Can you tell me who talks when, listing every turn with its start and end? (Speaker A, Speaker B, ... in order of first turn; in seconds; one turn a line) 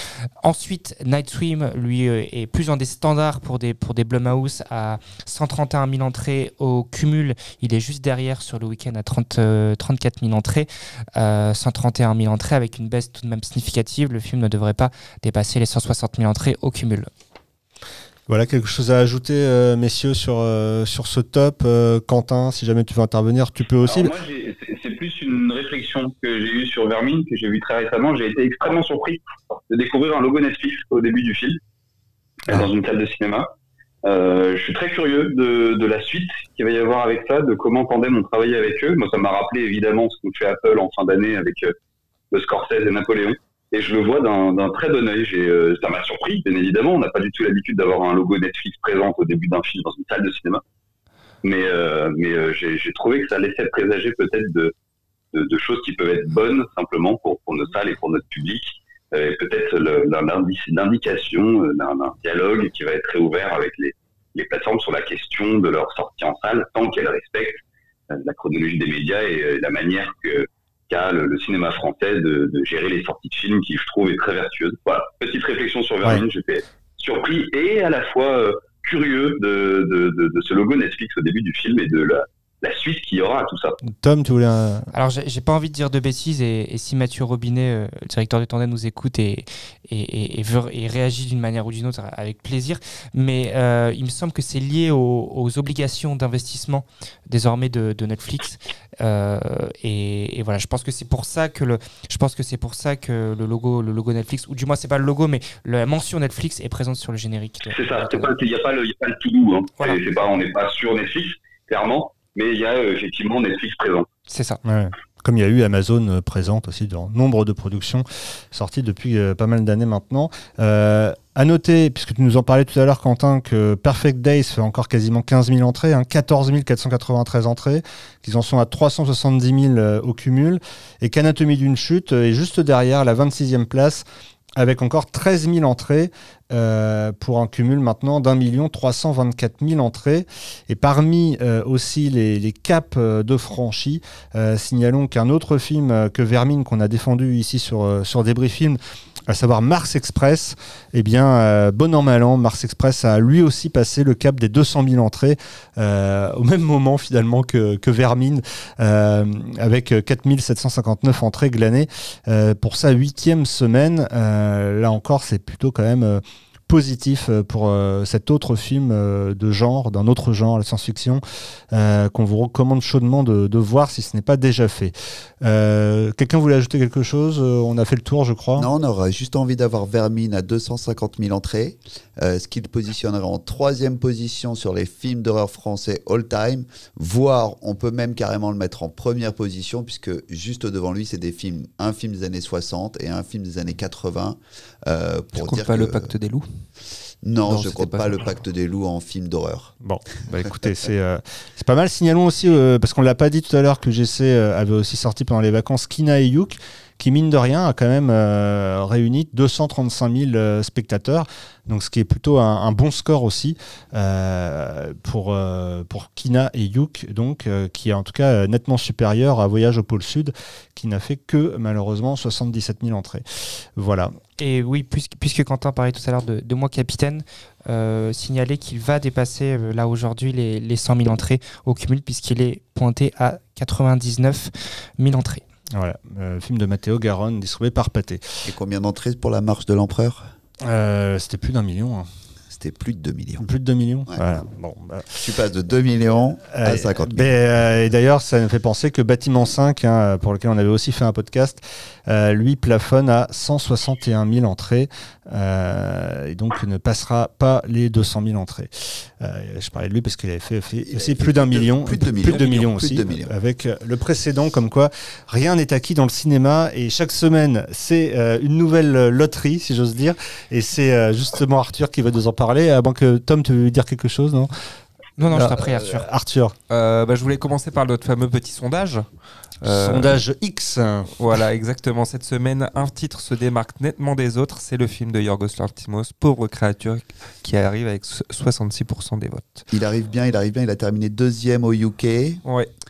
Speaker A: 0.4-17.1
Speaker B: 18.3-24.1
Speaker C: 23.8-31.6
Speaker C: 32.5-33.5
Speaker C: 34.0-41.7
Speaker C: 42.3-50.6
Speaker C: 51.4-54.7
Speaker C: 55.3-67.6
Speaker C: 68.1-83.8
Speaker B: 84.0-84.9
Speaker A: 84.9-108.3
Speaker C: 107.7-114.1
Speaker A: 114.3-114.6
Speaker B: 114.6-134.0
Speaker B: 134.6-171.2
Speaker B: 171.7-178.7
Speaker D: 178.6-196.1
Speaker E: 195.4-196.5
Speaker D: 197.2-199.7
Speaker E: 197.4-198.4
Speaker B: 199.8-224.1
Speaker A: 224.4-235.4
Speaker B: 235.7-238.4
Speaker D: 238.4-240.3
Speaker B: 240.6-242.1
Speaker D: 242.5-243.5
Speaker B: 243.4-245.2
Speaker D: 245.1-247.4
Speaker B: 246.5-274.5
Speaker D: 260.9-263.3
Speaker A: 275.2-276.1
Speaker B: 275.3-276.5
Speaker E: 276.7-279.1
Speaker E: 279.6-280.2
Speaker B: 279.6-281.1
Speaker E: 281.2-289.6
Speaker D: 289.7-292.4